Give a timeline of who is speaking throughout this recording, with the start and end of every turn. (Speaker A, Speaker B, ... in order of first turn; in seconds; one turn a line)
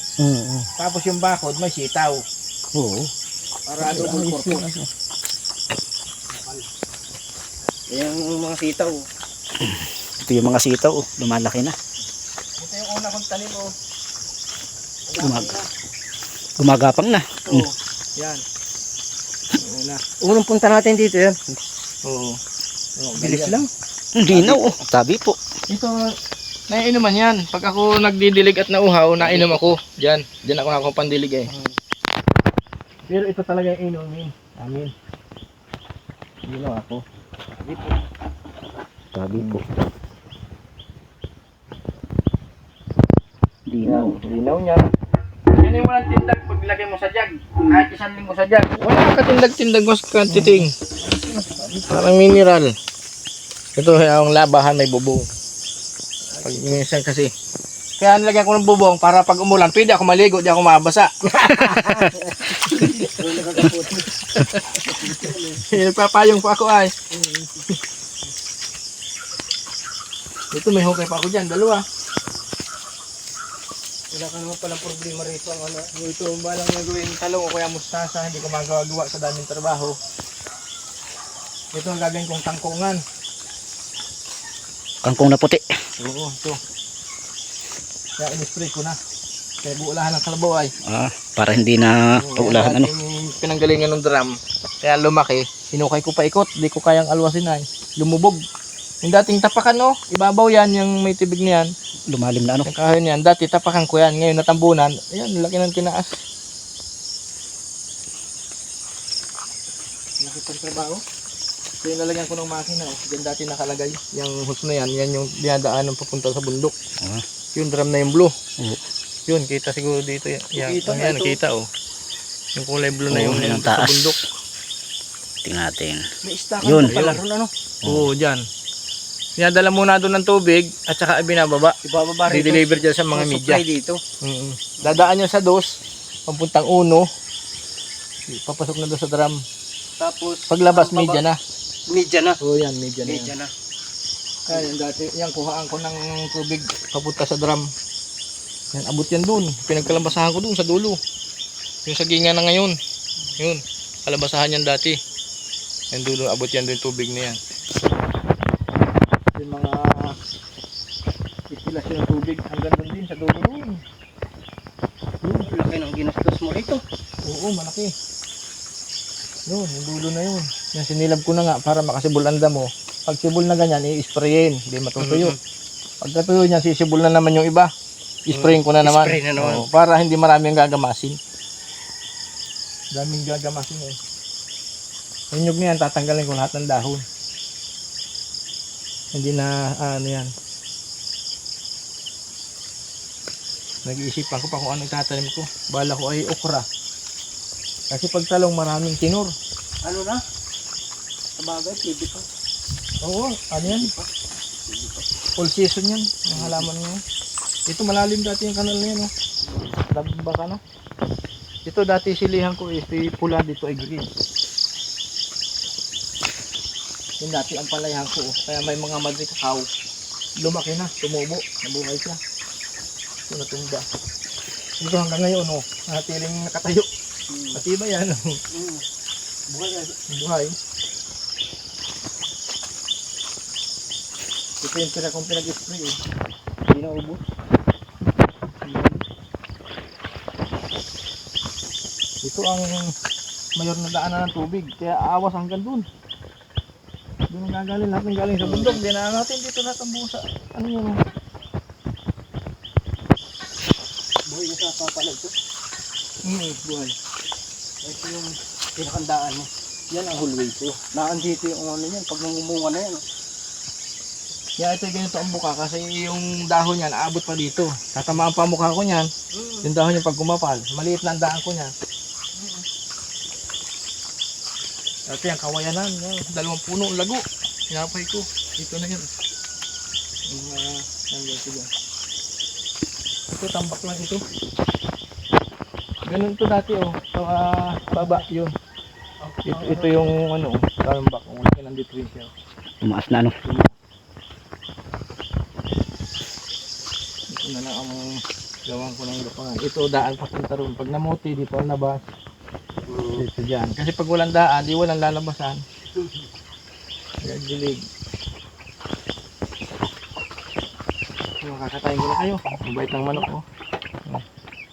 Speaker A: 0.2-0.7
Speaker B: 0.8-2.2
Speaker A: 2.7-3.1
Speaker B: 3.7-4.7
Speaker A: 3.9-4.9
Speaker C: 7.9-9.0
Speaker A: 9.6-11.8
Speaker B: 12.6-13.7
Speaker B: 15.1-15.6
Speaker A: 15.2-15.6
Speaker A: 16.6-17.6
Speaker B: 18.2-18.4
Speaker B: 19.6-20.0
Speaker C: 20.2-21.4
Speaker B: 22.0-22.4
Speaker B: 23.0-23.6
Speaker C: 23.2-23.7
Speaker A: 24.1-24.8
Speaker B: 24.3-24.6
Speaker C: 24.4-25.3
Speaker B: 25.7-25.9
Speaker B: 26.7-31.5
Speaker C: 29.2-29.7
Speaker B: 33.1-34.9
Speaker B: 36.5-37.0
Speaker C: 37.6-38.0
Speaker A: 39.1-39.6
Speaker A: 43.7-44.2
Speaker B: 43.8-44.9
Speaker B: 45.6-50.7
Speaker A: 50.3-50.7
Speaker B: 51.7-52.7
Speaker B: 53.8-55.3
Speaker C: 56.3-56.6
Speaker B: 56.4-57.3
Speaker B: 58.0-62.0
Speaker A: 61.6-62.1
Speaker B: 62.5-63.0
Speaker C: 62.7-64.1
Speaker B: 64.3-67.0
Speaker C: 64.8-65.6
Speaker B: 70.5-71.8
Speaker C: 74.1-75.9
Speaker B: 76.0-80.0
Speaker B: 81.7-83.0
Speaker A: 85.0-85.6
Speaker B: 86.0-86.6
Speaker B: 88.2-89.0
Speaker B: 89.6-90.7
Speaker A: 90.9-92.9
Speaker B: 92.2-98.4
Speaker B: 99.0-101.7
Speaker A: 102.1-102.7
Speaker B: 102.7-106.2
Speaker B: 110.2-111.0
Speaker B: 111.8-116.7
Speaker B: 117.5-118.3
Speaker B: 119.3-121.7
Speaker C: 120.5-121.4
Speaker B: 122.6-124.2
Speaker A: 123.1-124.1
Speaker A: 125.4-126.0
Speaker C: 126.2-127.5
Speaker A: 126.6-127.2
Speaker B: 127.8-128.4
Speaker B: 129.4-131.7
Speaker C: 131.8-134.0
Speaker B: 132.3-133.6
Speaker B: 134.2-135.7
Speaker B: 136.3-137.1
Speaker B: 138.3-139.4
Speaker C: 140.0-141.2
Speaker B: 140.5-141.4
Speaker C: 141.9-142.4
Speaker B: 142.4-143.3
Speaker C: 143.0-143.5
Speaker B: 144.5-147.7
Speaker B: 148.7-151.0
Speaker B: 151.8-152.7
Speaker B: 153.4-155.0
Speaker B: 155.9-157.4
Speaker B: 159.3-160.1
Speaker B: 161.5-163.8
Speaker B: 165.2-165.5
Speaker C: 165.4-166.8
Speaker B: 167.2-167.9
Speaker B: 169.5-175.3
Speaker C: 175.0-175.4
Speaker B: 176.0-177.7
Speaker B: 178.3-181.2
Speaker C: 178.3-179.6
Speaker B: 182.9-184.0
Speaker B: 185.3-187.0
Speaker B: 189.1-190.3
Speaker B: 193.8-196.7
Speaker B: 197.9-199.3
Speaker C: 199.8-200.2
Speaker C: 201.4-202.2
Speaker B: 203.0-203.9
Speaker C: 203.6-204.1
Speaker C: 204.7-205.0
Speaker B: 205.4-207.0
Speaker C: 206.3-206.7
Speaker B: 207.7-209.1
Speaker C: 209.4-209.8
Speaker B: 209.9-210.6
Speaker B: 211.7-214.1
Speaker B: 217.2-219.7
Speaker B: 220.4-222.2
Speaker B: 223.3-223.8
Speaker B: 224.8-226.9
Speaker C: 227.3-227.6
Speaker B: 227.5-228.3
Speaker C: 228.5-228.8
Speaker C: 229.5-229.9
Speaker B: 230.1-230.5
Speaker B: 234.6-235.9
Speaker B: 236.7-237.2
Speaker B: 238.7-239.0
Speaker B: 242.2-242.9
Speaker B: 243.6-245.8
Speaker B: 247.3-251.0
Speaker C: 248.4-248.8
Speaker C: 254.2-255.3
Speaker B: 256.2-256.9
Speaker C: 257.8-259.5
Speaker B: 259.9-260.8
Speaker C: 260.9-263.0
Speaker B: 264.6-269.1
Speaker C: 269.3-269.6
Speaker B: 269.6-271.7
Speaker C: 272.3-272.6
Speaker B: 275.1-279.1
Speaker B: 280.3-281.7
Speaker B: 283.4-284.2
Speaker B: 286.1-288.5
Speaker C: 287.9-288.2
Speaker C: 289.2-290.1
Speaker B: 289.5-292.3
Speaker A: 292.8-293.3
Speaker B: 297.3-302.0
Speaker C: 302.9-303.2
Speaker B: 303.1-305.6
Speaker B: 307.2-307.8
Speaker B: 311.4-313.4